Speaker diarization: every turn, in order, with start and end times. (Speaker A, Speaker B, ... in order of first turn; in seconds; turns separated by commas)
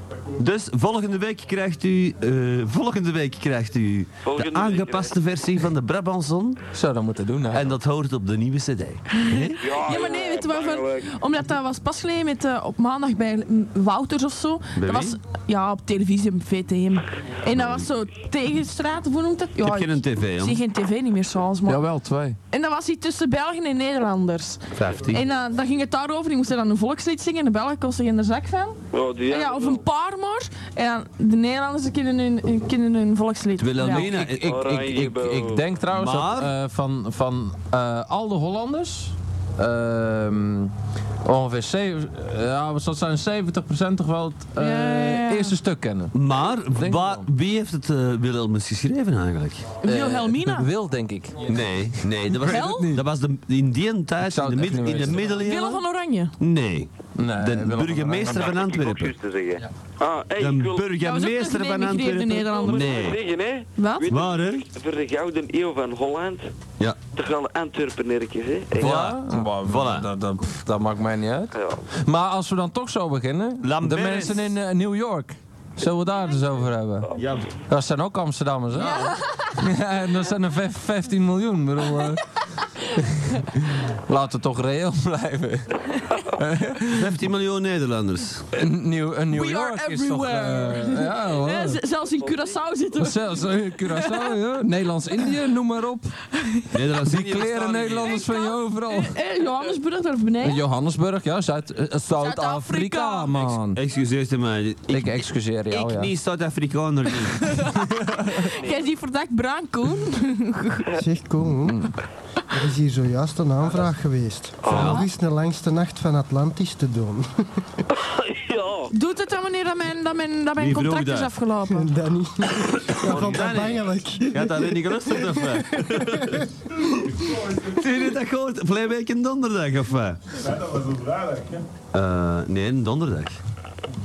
Speaker A: 0.4-6.6, Speaker B: 4.2-5.2, Speaker C: 6.7-7.8, Speaker A: 7.5-9.6, Speaker D: 9.1-21.9, Speaker E: 9.6-11.1, Speaker A: 14.7-15.2, Speaker A: 17.5-17.9, Speaker A: 19.6-20.6, Speaker C: 21.7-22.4, Speaker D: 22.5-34.1, Speaker A: 24.8-25.2, Speaker B: 28.9-29.9, Speaker A: 33.6-34.6, Speaker C: 33.9-46.2, Speaker B: 34.4-35.7, Speaker A: 35.9-36.5, Speaker D: 44.6-45.6, Speaker A: 46.1-49.8, Speaker C: 46.7-47.3, Speaker D: 49.8-50.7, Speaker C: 49.8-53.0, Speaker A: 51.5-55.8, Speaker D: 52.4-53.0, Speaker C: 54.3-55.4, Speaker D: 55.3-56.4, Speaker A: 56.4-59.1, Speaker C: 57.2-58.5, Speaker E: 58.2-59.6, Speaker B: 60.0-60.9, Speaker A: 60.4-63.2, Speaker D: 61.0-62.9, Speaker B: 62.6-66.5, Speaker D: 63.8-64.1, Speaker A: 64.1-64.7, Speaker B: 67.1-69.0, Speaker A: 68.8-70.1, Speaker C: 68.8-77.1, Speaker B: 71.5-71.9, Speaker A: 73.6-74.5, Speaker A: 77.2-77.5, Speaker C: 77.7-79.0, Speaker A: 78.8-79.1, Speaker D: 78.8-79.5, Speaker C: 79.6-82.2, Speaker C: 83.7-85.8, Speaker C: 86.4-87.1, Speaker A: 86.9-88.5, Speaker C: 88.5-91.8, Speaker D: 89.3-94.4, Speaker B: 92.2-92.6, Speaker C: 93.0-96.2, Speaker D: 96.4-96.7, Speaker A: 96.7-98.2, Speaker C: 97.1-99.2, Speaker D: 98.1-100.6, Speaker C: 100.4-103.8, Speaker D: 102.2-103.5, Speaker A: 103.8-107.7, Speaker C: 104.9-106.1, Speaker D: 107.4-110.9, Speaker F: 111.0-111.9, Speaker C: 111.7-112.0, Speaker F: 112.5-117.3, Speaker B: 114.6-115.0, Speaker A: 114.7-115.1, Speaker D: 114.7-115.1, Speaker B: 118.0-118.9, Speaker D: 118.9-122.0, Speaker A: 120.6-121.3, Speaker F: 121.7-126.5, Speaker A: 122.9-126.4, Speaker A: 127.1-130.4, Speaker A: 131.9-133.4